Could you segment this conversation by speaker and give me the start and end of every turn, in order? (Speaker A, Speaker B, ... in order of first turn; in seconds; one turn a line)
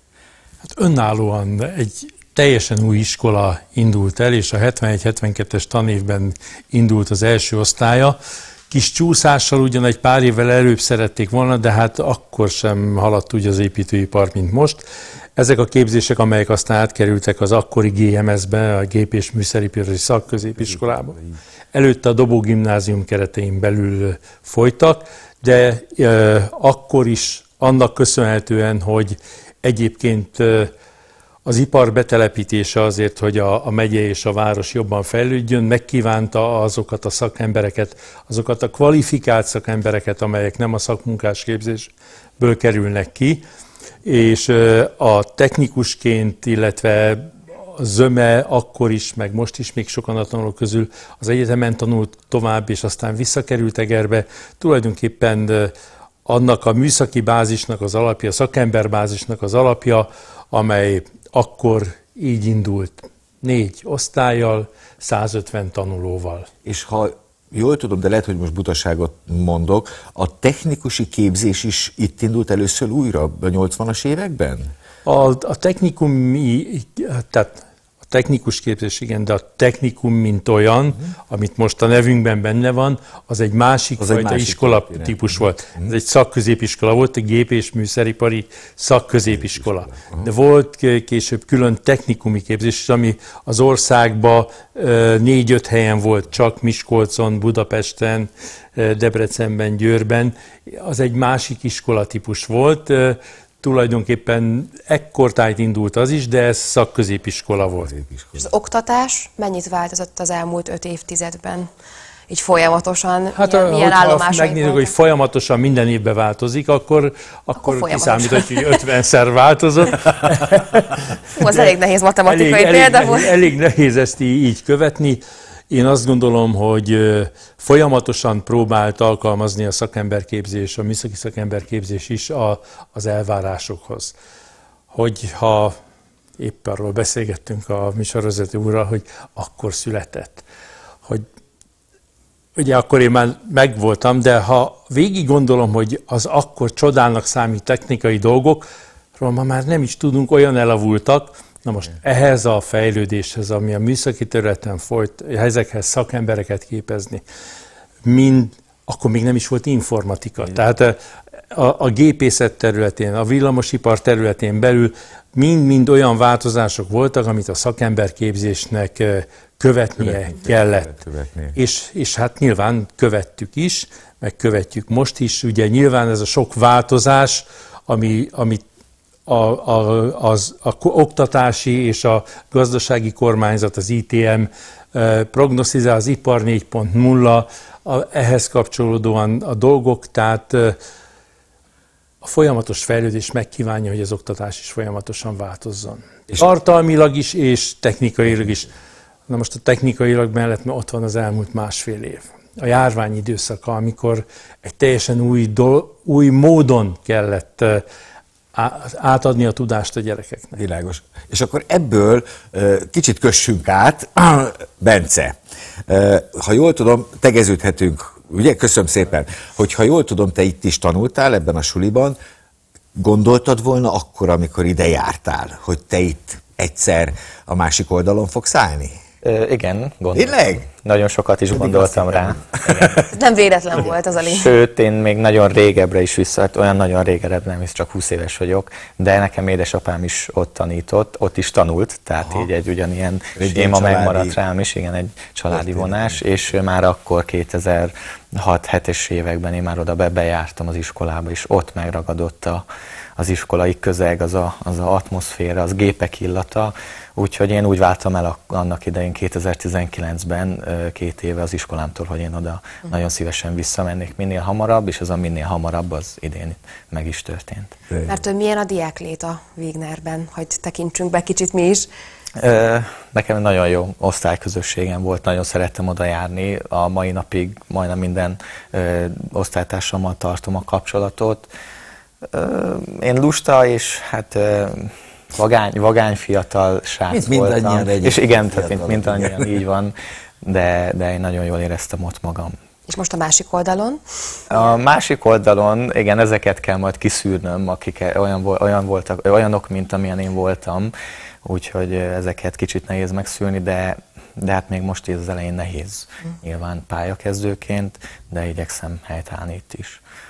Speaker A: 0.7-8.2
Speaker A: 8.7-14.8
Speaker A: 15.3-21.2
Speaker A: 21.7-30.7
Speaker A: 31.4-43.4
Speaker A: 44.0-55.7
Speaker A: 56.2-66.5
Speaker B: 66.6-74.7
Speaker A: 75.0-107.9
Speaker B: 84.0-85.9
Speaker B: 89.3-90.3
Speaker B: 107.8-108.5
Speaker C: 108.4-111.7
Speaker C: 112.3-114.9
Speaker A: 113.3-134.2
Speaker C: 117.5-118.8
Speaker C: 121.3-123.3
Speaker A: 134.9-135.7
Speaker A: 136.4-140.4
Speaker A: 142.6-157.2
Speaker A: 158.0-161.0
Speaker A: 161.5-170.9
Speaker B: 170.0-171.6
Speaker A: 171.5-178.6
Speaker A: 179.3-190.8
Speaker A: 192.2-198.7
Speaker A: 199.3-207.8
Speaker A: 208.5-210.6
Speaker B: 210.6-215.3
Speaker B: 215.9-222.2
Speaker B: 222.9-229.0
Speaker D: 229.2-233.1
Speaker B: 230.1-230.7
Speaker B: 231.5-233.1
Speaker C: 233.1-234.5
Speaker D: 234.2-252.6
Speaker B: 242.2-242.5
Speaker B: 243.3-244.4
Speaker B: 245.5-246.4
Speaker D: 253.2-267.8
Speaker B: 267.9-268.1
Speaker C: 268.1-271.9
Speaker D: 272.4-281.5
Speaker D: 282.3-292.5
Speaker B: 287.1-289.6
Speaker C: 292.9-294.8
Speaker D: 294.5-300.9
Speaker D: 301.4-310.0